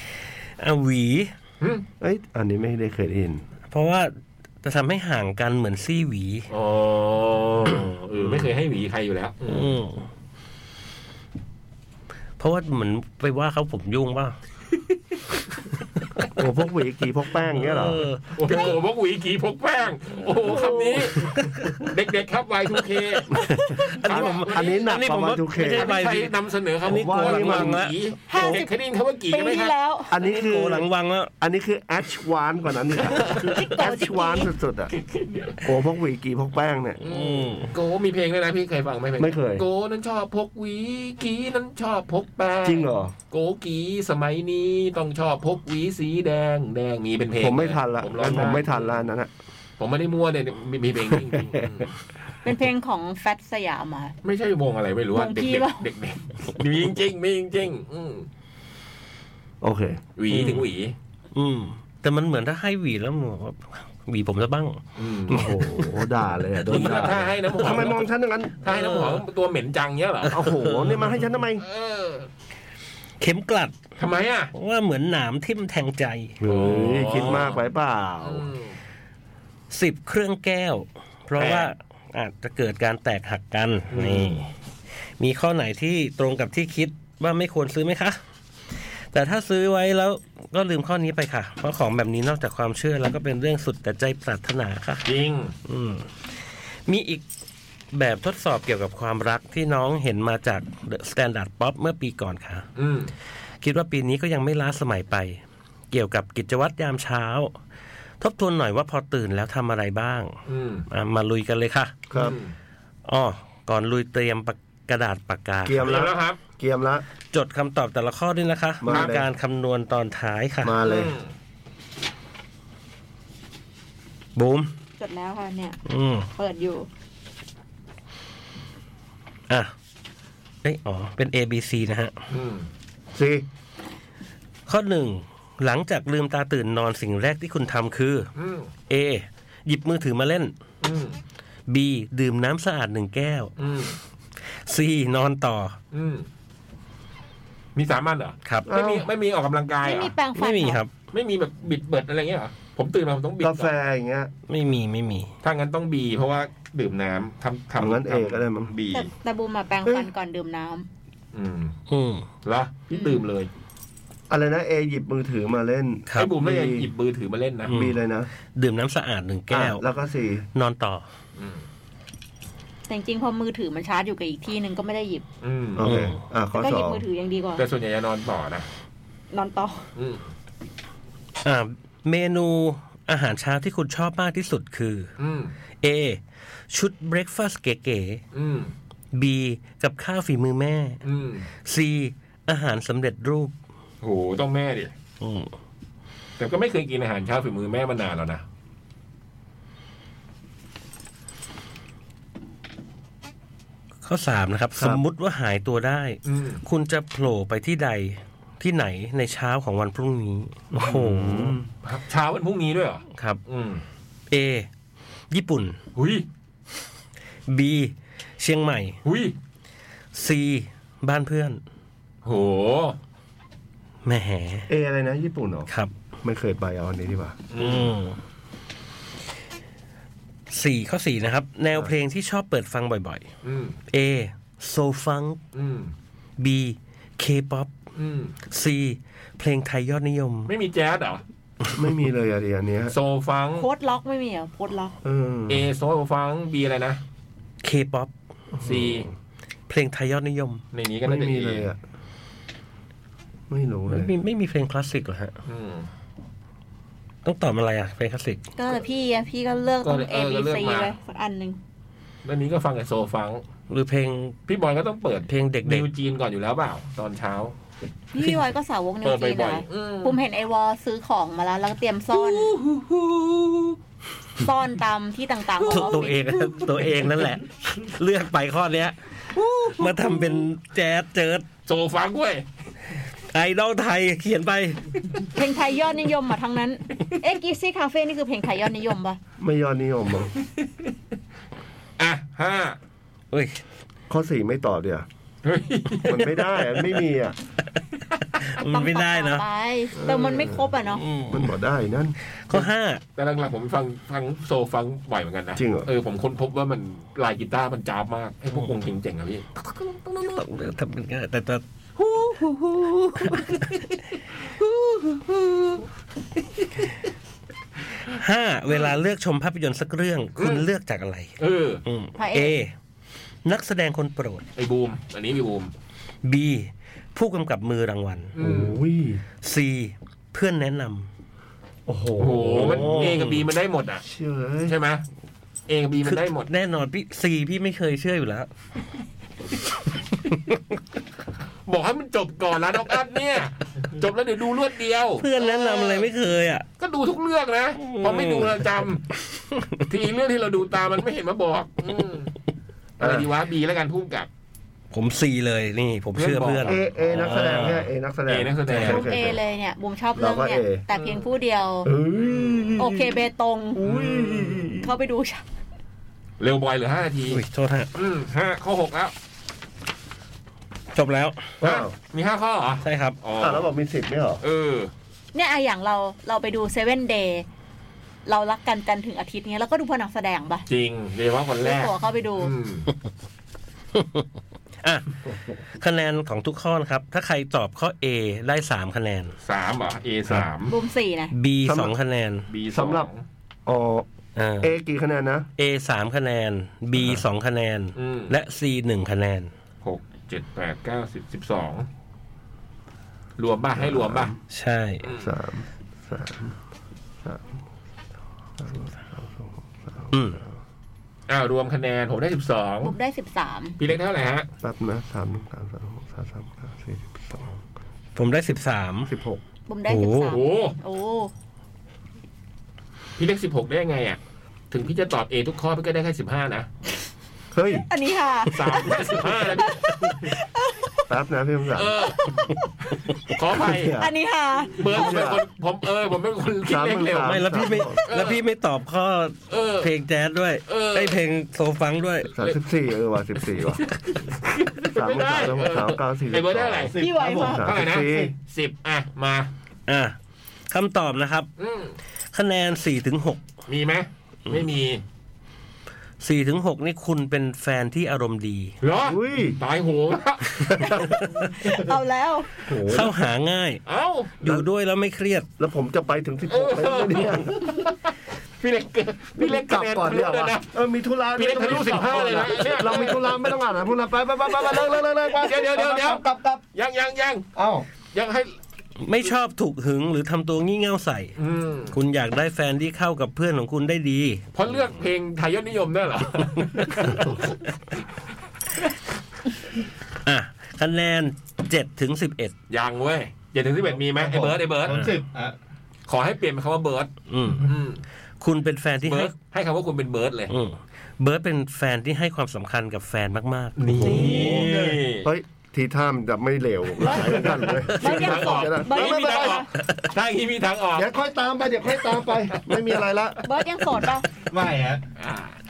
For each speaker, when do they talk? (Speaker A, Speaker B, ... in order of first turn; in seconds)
Speaker A: 0.6-1.3, 3.7-6.5, 9.4-10.1, 12.4-14.3, 17.6-18.3, 21.1-21.9, 23.3-28.6, 30.2-31.3, 37.0-37.7, 60.3-60.7, 61.3-65.9, 66.6-67.8, 68.7-69.2, 70.2-71.1, 73.2-73.8, 74.5-76.4, 79.7-84.5, 85.2-88.2, 88.7-95.1, 95.7-97.2, 97.9-102.6, 103.6-107.5, 108.2-110.3, 110.9-112.0, 113.0-116.0, 117.3-120.8, 124.3-124.7, 125.8-126.3, 130.6-132.1, 134.7-138.3, 138.9-140.5, 141.7-143.5, 144.7-145.8, 150.3-150.9, 154.5-155.3, 161.9-162.3, 166.1-166.3, 167.7-168.0, 168.5-169.8, 170.5-171.0, 175.8-176.2, 181.4-185.1, 185.8-188.2, 189.1-191.0, 191.6-193.5, 195.2-195.5, 204.0-211.6, 213.1-213.4, 214.3-214.7, 215.3-215.8, 217.5-219.0, 220.1-221.6, 224.0-224.7, 227.6-228.2, 230.5-233.2, 233.9-235.4, 236.4-237.7, 238.5-240.5, 247.6-248.1, 249.7-250.6, 253.9-255.3, 257.2-258.4, 263.7-264.4, 265.3-265.9, 275.7-278.9, 279.7-281.5, 283.3-284.8, 293.3-293.6, 298.4-299.4, 300.9-301.5, 302.5-303.0, 310.1-311.6, 313.1-313.8, 318.1-321.3, 321.8-322.7, 323.4-324.4, 326.2-328.3, 329.4-331.1, 332.6-333.4, 336.0-338.5, 340.3-340.6, 345.2-346.6, 347.8-348.6, 349.5-349.8, 354.9-356.8, 358.7-359.0, 367.3-367.9, 370.9-371.5, 372.8-373.2, 383.9-384.3, 384.8-385.2, 385.8-389.3, 391.3-392.5, 394.4-394.7, 395.6-399.5, 404.5-405.0, 410.1-410.4, 418.1-419.1, 419.9-420.4, 437.2-442.3, 449.9-450.1, 450.7-451.5, 452.3-453.4, 456.2-458.7, 460.6-461.7, 462.8-463.8, 464.4-465.5, 479.0-481.3, 481.9-484.4, 487.0-487.2, 490.2-492.5, 497.3-497.7, 498.4-499.3, 500.5-504.6
Speaker B: 2.0-3.4, 16.4-18.1, 24.0-26.0, 26.8-27.8, 30.1-30.9, 31.4-34.9, 35.6-37.0, 39.2-39.6, 42.6-43.1, 47.4-49.3, 51.2-51.7, 59.6-60.0, 65.3-68.6, 70.3-71.6, 76.4-78.5, 112.1-112.4, 115.6-117.0, 118.8-119.3, 120.6-121.1, 133.1-133.4, 148.7-149.1, 153.4-154.3, 157.8-158.7, 164.3-166.9, 167.7-168.3, 169.5-170.5, 175.8-177.0, 204.8-205.0, 210.7-211.6, 224.7-225.7, 226.2-227.4, 241.7-242.9, 245.0-245.7, 248.6-249.1, 251.0-251.8, 253.5-254.1, 289.4-290.3, 294.1-295.1, 296.0-297.4, 299.9-300.7, 301.3-302.1, 305.6-305.9, 328.4-329.2, 331.9-333.2, 334.0-334.7, 353.0-353.3, 356.6-359.4, 360.1-360.8, 361.8-363.2, 363.8-364.9, 371.6-371.9, 373.4-374.4, 391.6-391.9, 392.7-393.1, 393.6-394.1, 394.6-395.5, 403.8-404.3, 405.1-406.5, 407.2-407.5, 408.6-410.4, 414.6-417.5, 419.1-419.4, 427.5-427.9, 431.1-432.0, 433.5-434.1, 434.8-435.4, 436.6-438.0, 442.3-443.8, 444.9-448.3, 459.0-459.6, 462.6-463.1, 465.6-467.7, 469.4-475.7, 477.5-477.9, 503.9-504.7, 505.2-509.6, 510.9-513.4
Speaker C: 6.5-9.8, 18.3-23.4, 24.0-24.9, 25.6-29.7, 34.9-35.6, 37.0-49.0, 49.8-51.9, 54.2-58.3, 60.2-60.9, 65.0-65.5, 66.7-68.0, 68.6-72.3, 74.0-74.5, 76.5-77.6, 78.2-78.8, 81.4-81.7, 83.9-84.5, 95.0-95.5, 102.8-103.1, 110.5-110.8, 112.1-112.5, 115.8-116.4, 118.9-119.2, 120.8-121.3, 132.3-132.7, 138.3-138.7, 140.8-141.2, 143.6-144.0, 145.9-146.3, 147.7-150.1, 151.1-153.7, 155.4-159.1, 161.3-161.8, 162.4-163.5, 166.2-167.7, 171.4-171.6, 175.4-175.8, 177.6-178.7, 179.9-180.3, 185.2-185.5, 188.3-188.7, 191.0-191.5, 194.0-194.9, 196.4-198.4, 206.2-206.6, 211.8-213.8, 215.9-216.2, 219.0-219.3, 222.2-223.0, 227.5-227.9, 233.4-233.8, 235.5-235.9, 237.9-238.3, 240.5-241.2, 242.9-243.7, 245.5-247.0, 248.6-249.1, 250.7-251.7, 255.5-255.9, 259.8-260.9, 262.2-263.4, 264.5-267.5, 269.0-270.2, 272.1-273.8, 275.6-276.8, 279.3-280.4, 281.6-282.4, 292.0-292.8, 295.4-296.8, 302.5-310.2, 312.0-313.6, 314.6-315.8, 320.4-320.7, 321.4-321.8, 324.6-325.7, 328.3-328.8, 332.2-334.0, 334.6-335.0, 335.7-336.5, 341.7-346.1, 346.8-349.0, 349.9-352.3, 353.0-354.3, 356.1-359.1, 362.2-362.7, 363.8-364.8, 366.4-367.4, 367.9-369.1, 371.6-373.7, 374.4-374.9, 380.7-382.9, 389.4-390.7, 392.5-393.2, 397.9-398.3, 399.8-401.9, 403.4-404.3, 405.0-405.3, 411.3-412.9, 413.8-414.5, 420.3-420.8, 423.2-424.2, 424.7-426.7, 428.5-430.3, 431.7-432.5, 433.3-433.9, 434.8-437.4, 438.1-438.4, 439.5-439.9, 440.7-441.2, 443.9-446.9, 447.6-449.5, 451.6-451.9, 453.7-455.0, 458.8-461.1, 463.9-464.3, 466.5-470.7, 471.4-473.5, 474.5-477.4, 478.1-478.5, 481.4-481.9, 484.5-488.0, 492.7-495.1, 496.1-498.0, 499.0-500.5, 503.8-505.3, 507.9-511.1, 515.2-515.5
Speaker D: 20.5-21.0, 23.5-23.9, 28.3-28.7, 29.3-30.2, 33.4-34.5, 52.4-54.1, 55.1-55.8, 125.0-125.8, 126.3-126.9, 149.8-150.8, 158.9-160.9, 162.9-163.2, 172.9-175.2, 176.5-177.6, 179.3-179.8, 243.6-244.9, 258.6-261.6, 268.1-272.6, 274.4-276.3, 285.3-289.2, 298.6-301.0, 322.1-322.6, 358.8-361.9, 362.8-363.8, 364.8-365.4, 375.3-377.4, 378.2-380.6, 381.6-382.5, 390.7-391.3, 412.8-413.8, 419.7-421.3, 427.9-431.0, 434.0-435.0, 447.0-447.6, 460.8-462.5, 507.9-509.7, 513.4-514.3
Speaker E: 446.9-448.2, 475.5-476.6, 494.2-495.5, 503.9-505.0, 507.2-507.6, 514.5-515.0